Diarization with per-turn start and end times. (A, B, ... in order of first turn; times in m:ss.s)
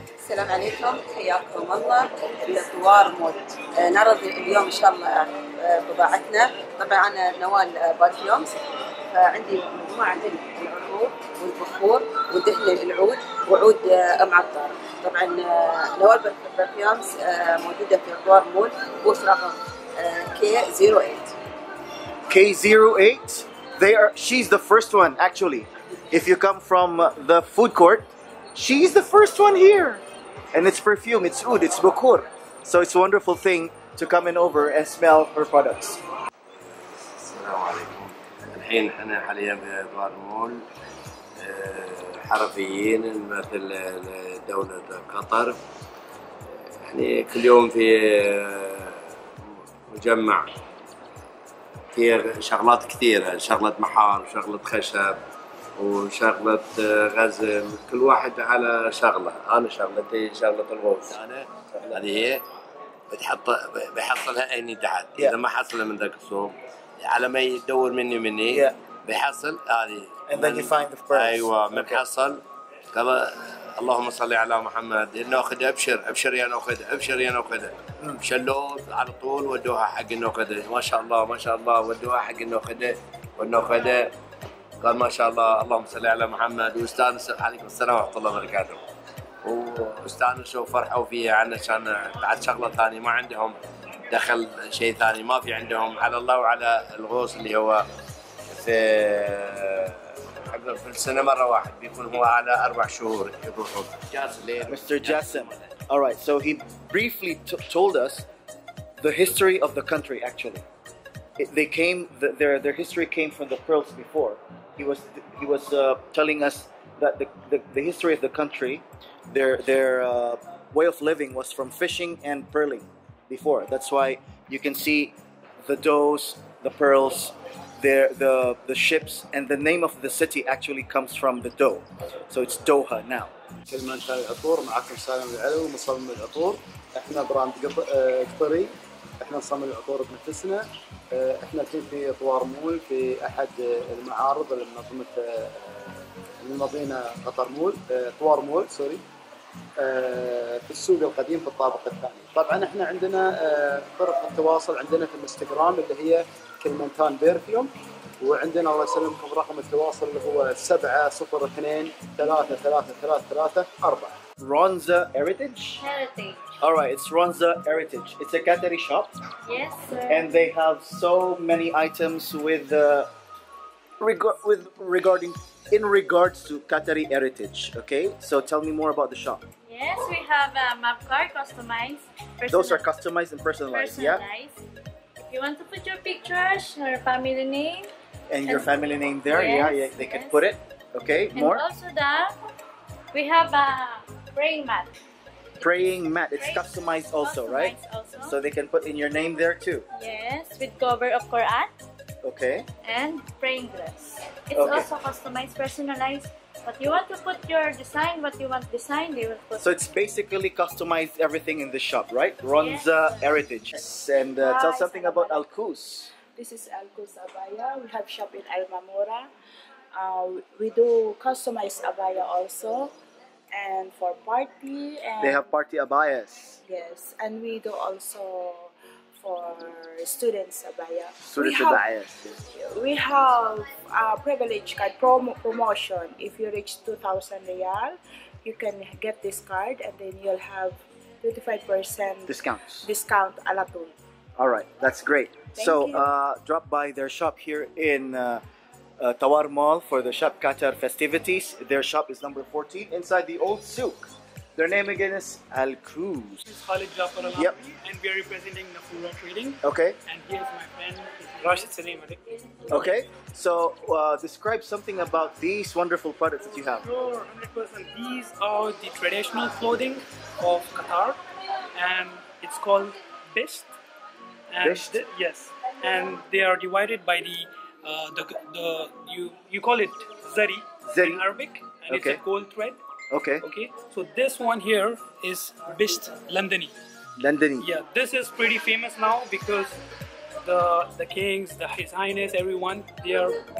0:00.2-0:21.3 A
0:22.3-0:36.0 B
0:36.6-0:40.6 C
0:41.4-0:45.6 C
0:46.8-0:50.5 C
0:51.9-0:55.2 C
0:55.8-1:02.4 C
1:03.1-1:12.4 C
1:08.5-1:08.8 B
1:10.3-1:12.0 B
1:12.9-1:13.2 C
1:13.8-1:24.1 C
1:24.8-1:28.8 C
1:29.4-1:33.6 C
1:34.1-1:37.8 C
1:38.5-1:39.9 C
1:40.5-1:45.6 C
1:44.6-1:48.3 B
1:49.0-1:50.6 B
1:51.4-2:13.3 B
2:13.7-2:29.0 D
2:29.8-2:44.2 D
2:44.4-2:45.8 B
2:45.8-2:46.4 E
2:46.6-2:49.1 B
2:49.4-2:50.4 E
2:50.1-2:53.1 B
2:54.0-2:59.4 B
2:59.7-3:02.8 E
3:02.5-3:04.2 B
3:03.7-3:04.6 E
3:05.2-3:07.9 E
3:08.3-3:11.6 B
3:08.4-3:08.7 E
3:09.3-3:10.4 E
3:11.3-3:12.3 E
3:13.1-3:14.9 E
3:15.6-3:19.8 B
3:16.4-3:18.4 E
3:19.9-3:21.7 E
3:22.2-3:22.7 B
3:22.8-3:29.7 E
3:24.5-3:24.9 B
3:29.6-3:36.1 B
3:32.5-3:33.3 E
3:34.4-3:35.5 F
3:36.4-3:39.3 F
3:39.9-3:42.9 F
3:43.5-3:45.4 F
3:45.2-3:46.6 B
3:46.6-3:51.8 F
3:51.2-3:52.2 B
3:52.3-4:03.9 F
4:02.2-4:02.9 B
4:04.4-4:08.4 B
4:05.6-4:06.0 F
4:09.0-4:16.4 B
4:16.4-4:22.2 G
4:19.6-4:20.0 B
4:22.7-4:26.8 B
4:26.8-4:31.2 G
4:31.7-4:33.7 G
4:34.5-4:42.8 G
4:34.6-4:35.0 B
4:40.9-4:41.2 B
4:41.9-4:42.2 B
4:43.1-4:43.4 B
4:43.4-4:46.7 G
4:47.2-4:47.7 B
4:47.6-4:49.8 G
4:50.4-4:53.4 G